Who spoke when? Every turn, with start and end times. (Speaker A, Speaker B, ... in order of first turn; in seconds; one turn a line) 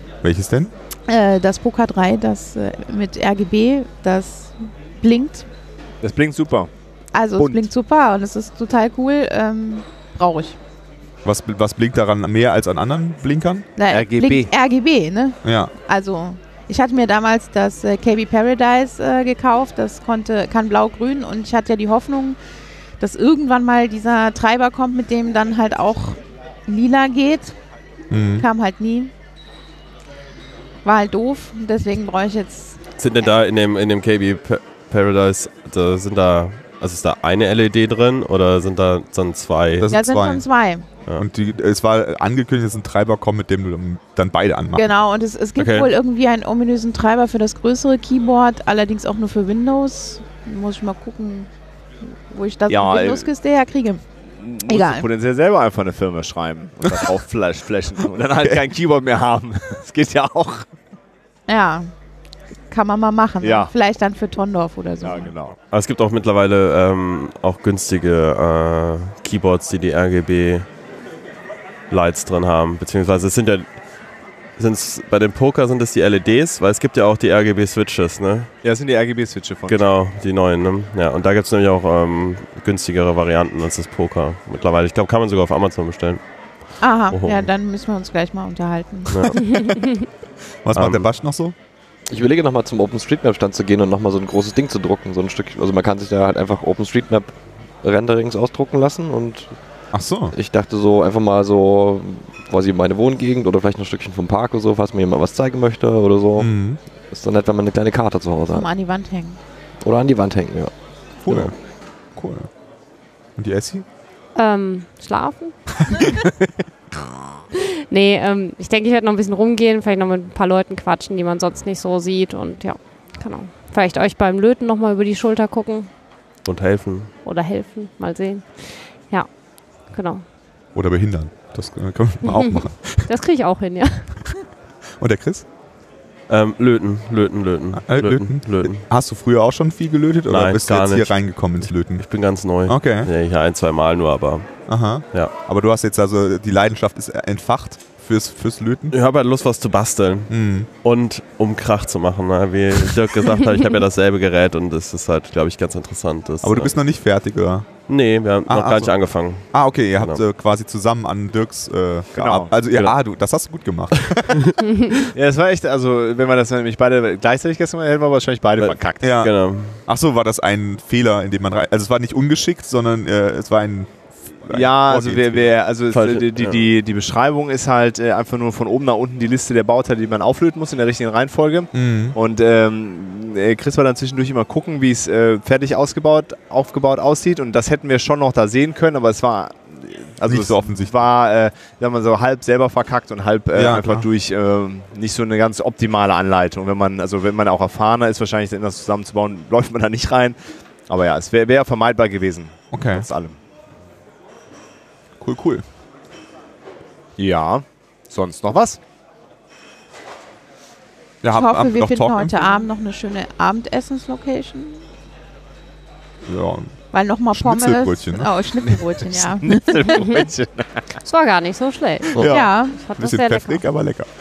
Speaker A: 0.2-0.7
Speaker B: 1.1-5.5
Speaker C: 6.0-6.7
Speaker B: 7.1-10.6
Speaker C: 7.4-7.6
Speaker A: 11.2-13.7
Speaker B: 13.8-22.4
Speaker C: 13.9-14.5
Speaker A: 15.4-15.7
Speaker B: 23.0-27.6
Speaker A: 28.1-28.5
Speaker B: 28.4-29.1
Speaker B: 30.8-32.8
Speaker D: 33.0-39.9
Speaker A: 39.8-40.4
Speaker B: 39.9-40.9
Speaker A: 41.1-44.9
Speaker B: 44.7-51.5
Speaker D: 45.6-45.9
Speaker B: 52.3-54.0
Speaker C: 52.7-53.3
Speaker C: 54.3-60.7
Speaker B: 54.7-55.1
Speaker B: 61.5-61.9
Speaker B: 62.7-65.3
Speaker C: 63.4-63.7
Speaker C: 65.0-65.5
Speaker D: 65.7-70.7
Speaker D: 71.9-73.9
Speaker D: 74.6-78.5
Speaker C: 78.6-79.9
Speaker D: 79.7-87.5
Speaker B: 86.8-89.4
Speaker D: 89.1-89.4
Speaker A: 90.6-91.5
Speaker D: 90.7-91.1
Speaker E: 92.1-108.7
Speaker A: 99.9-100.3
Speaker A: 106.4-106.8
Speaker B: 108.5-109.4
Speaker E: 109.8-111.5
Speaker A: 111.2-112.5
Speaker A: 113.4-113.8
Speaker F: 114.3-116.1
Speaker F: 117.9-125.9
Speaker D: 126.4-127.1
Speaker F: 127.2-130.2
Speaker A: 130.7-133.1
Speaker F: 132.2-134.2
Speaker A: 135.0-135.5
Speaker D: 136.3-138.9
Speaker A: 137.8-143.1
Speaker D: 140.3-145.3
Speaker A: 144.7-148.9
Speaker D: 148.9-156.7
Speaker A: 150.3-150.7
Speaker A: 156.4-164.5
Speaker D: 157.9-160.2
Speaker C: 162.1-162.5
Speaker D: 162.7-162.9
Speaker C: 165.1-169.2
Speaker D: 168.6-169.8
Speaker A: 169.0-175.5
Speaker C: 174.5-203.4
Speaker D: 175.9-176.7
Speaker A: 181.7-182.2
Speaker A: 190.2-190.9
Speaker A: 193.5-194.0
Speaker A: 202.7-203.1
Speaker A: 205.2-205.6
Speaker C: 207.2-208.8
Speaker A: 211.2-212.6
Speaker B: 211.3-214.8
Speaker A: 216.2-218.3
Speaker B: 216.9-220.0
Speaker C: 219.1-220.9
Speaker F: 221.0-223.7
Speaker A: 222.2-224.1
Speaker B: 222.3-222.8